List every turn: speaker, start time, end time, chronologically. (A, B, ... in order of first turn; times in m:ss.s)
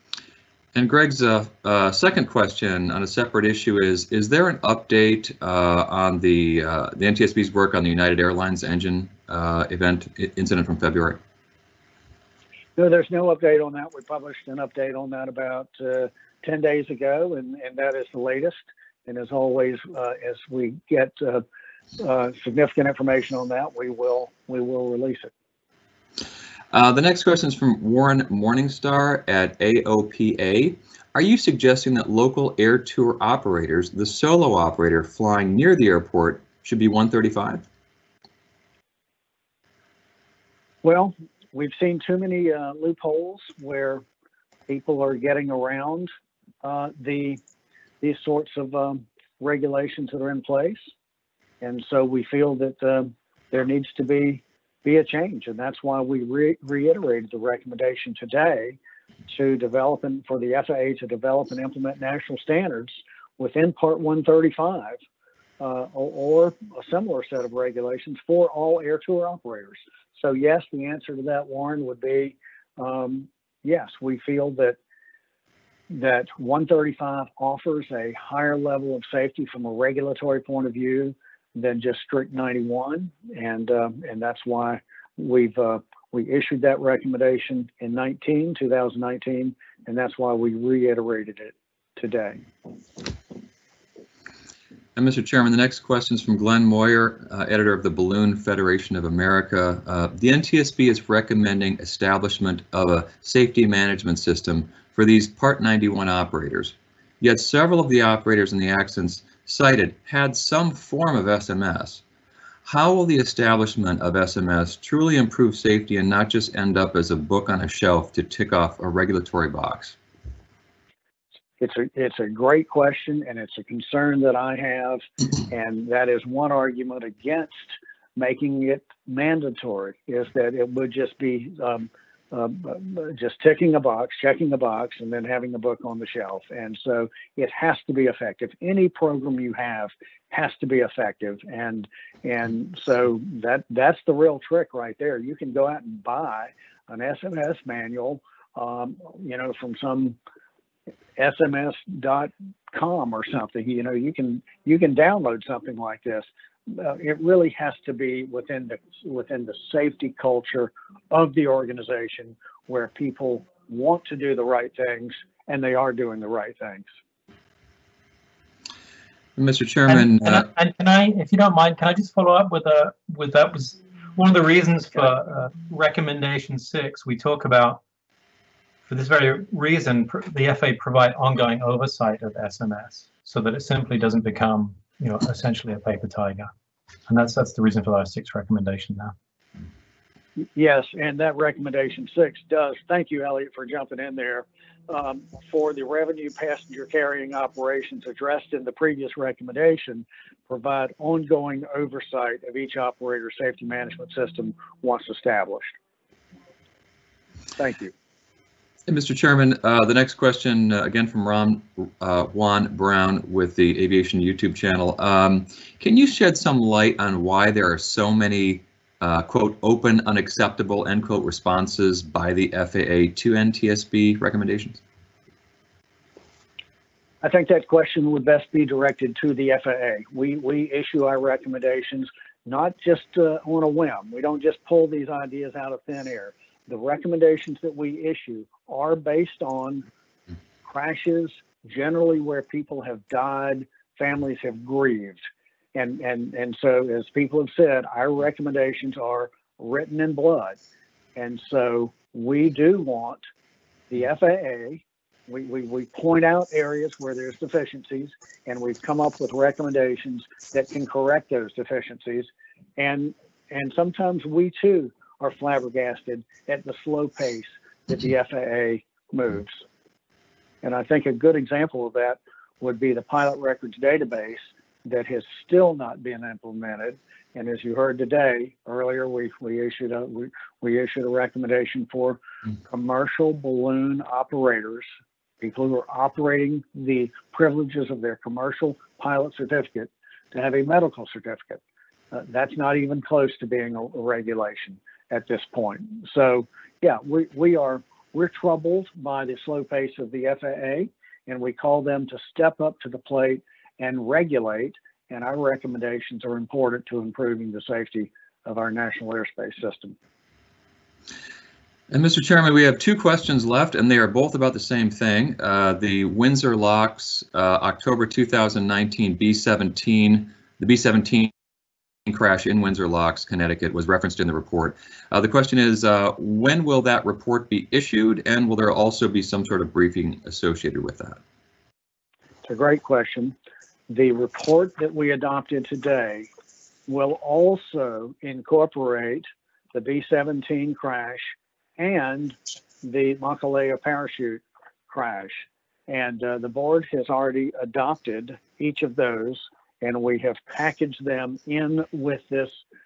0:00.7-0:11.2 A
0:12.8-0:21.4 B
0:22.0-0:25.3 B
0:26.7-0:37.6 A
0:40.8-0:44.0 B
0:44.7-0:46.1 B
0:46.6-0:47.4 B
0:48.0-0:50.9 B
0:51.6-0:58.8 B
0:59.3-1:05.0 B
1:05.6-1:14.8 B
1:15.9-1:32.4 B
1:35.0-1:52.0 A
1:52.6-2:00.0 A
2:01.6-2:30.2 B
2:31.2-2:46.9 B
2:49.4-2:50.4 A
2:49.9-2:57.8 C
2:58.9-3:06.5 C
3:07.1-3:09.1 C
3:10.4-3:25.7 B
3:27.6-3:27.9 B
3:28.9-3:44.8 A
3:47.2-3:59.8 B
4:00.6-4:05.2 B
4:05.7-4:10.6 B
4:11.2-4:13.2 B
4:13.9-4:29.6 B
4:30.6-4:44.8 B
4:45.4-4:51.6 B
4:52.1-5:10.0 B
5:11.9-5:21.3 A
5:22.1-5:31.2 A
5:32.4-5:33.3 B
5:33.9-5:36.3 B
5:36.9-5:52.6 B